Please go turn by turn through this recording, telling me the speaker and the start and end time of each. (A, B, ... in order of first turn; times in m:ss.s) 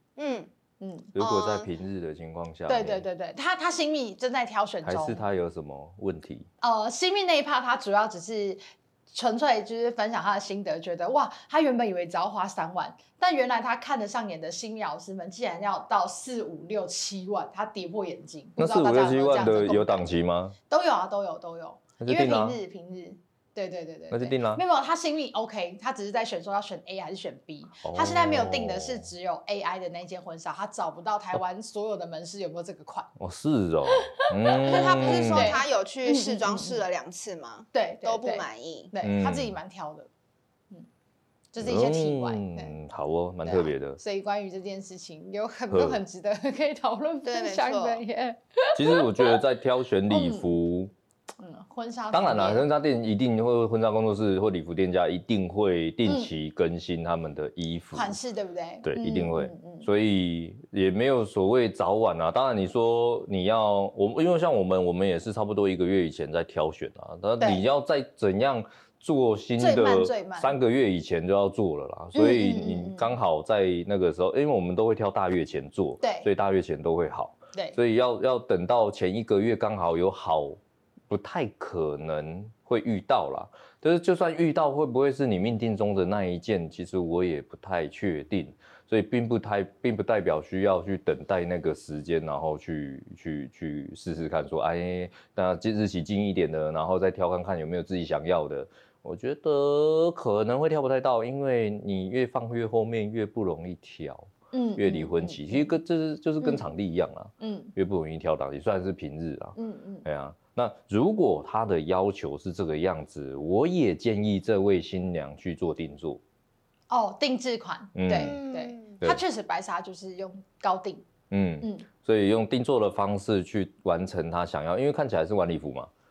0:00.2-0:00.5 A
0:00.8-0:01.1 B
0:01.2-0:03.1 C
0:01.2-0:01.7 A
0:02.7-0:05.2 B
0:04.8-0:06.5 C
0:06.6-0:20.2 B
0:18.6-0:20.6 C
0:20.7-0:33.1 B
0:22.0-0:22.6 C
0:24.1-0:24.6 C
0:27.8-0:29.1 C
0:33.2-0:35.6 C
0:33.9-0:36.8 B
0:34.6-0:38.9 A
0:37.7-0:40.1 B
0:39.0-0:39.6 C
0:41.5-0:42.7 B
0:41.6-0:44.0 C
0:43.4-0:49.4 B
0:45.7-0:46.0 C
0:47.2-0:48.0 A
0:48.8-0:50.9 C
0:50.1-0:50.6 B
0:51.4-0:52.7 B
0:52.1-0:58.2 C
0:56.0-0:56.3 B
0:57.9-0:59.9 B
0:58.8-1:56.2 C
1:09.6-1:10.5 B
1:12.2-1:13.2 B
1:16.0-1:16.3 B
1:44.5-1:45.7 B
1:47.4-1:47.7 B
1:49.6-1:50.1 B
1:56.9-2:01.0 B
1:58.0-1:58.4 C
1:58.1-1:59.0 A
2:01.3-2:05.9 C
2:01.6-2:01.9 B